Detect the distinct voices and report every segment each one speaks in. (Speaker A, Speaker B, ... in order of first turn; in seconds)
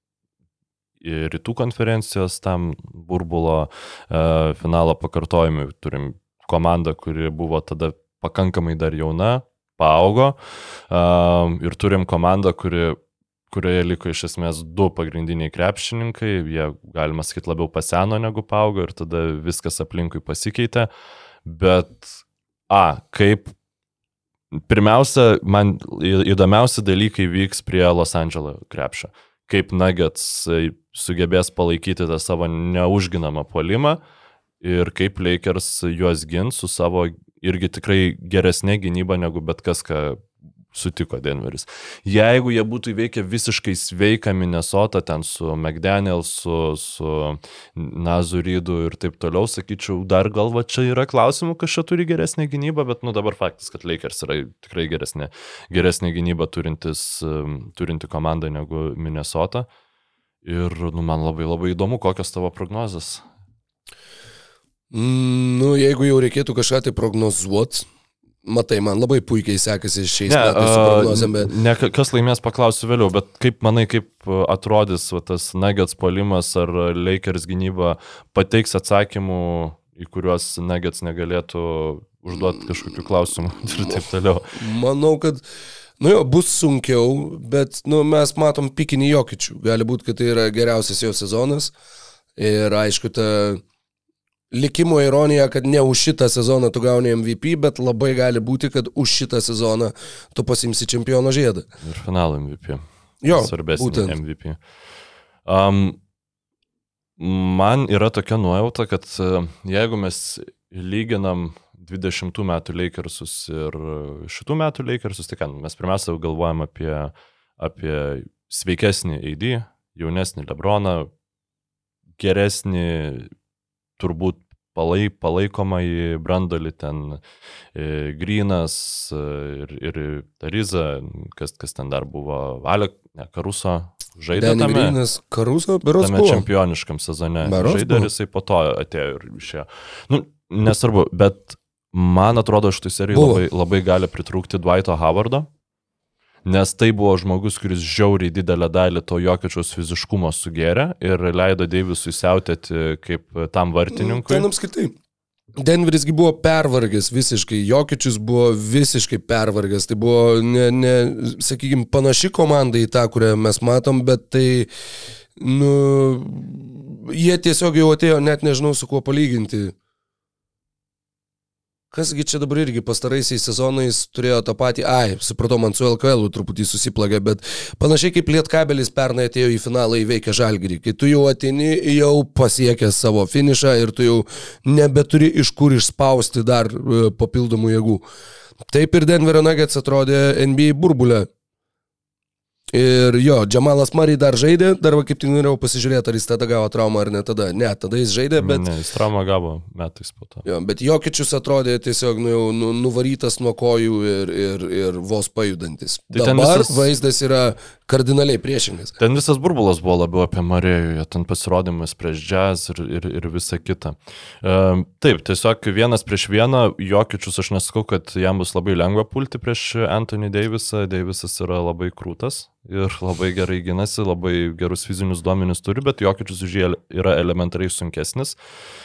Speaker A: 1.0-10.4, 10.9-13.0, 13.5-20.9, 21.4-22.2, 22.7-23.5, 24.5-34.0, 34.6-59.7, 60.4-63.2, 70.3-84.5, 101.8-104.6, 105.5-106.0, 107.2-121.1, 122.2-123.3, 124.0-127.2, 127.7-135.0, 136.0-145.5, 146.4-154.5, 198.4-200.4, 206.1-206.9, 209.0-228.4
Speaker B: 64.9-67.9, 68.4-71.5, 84.5-85.4, 86.0-91.7, 92.4-93.6, 94.5-101.7, 103.2-104.2, 134.3-136.4, 137.4-138.1, 143.1-143.4, 153.9-154.9, 155.6-164.7, 165.4-169.7, 171.9-188.0, 188.7-191.3, 192.7-198.7, 200.4-208.9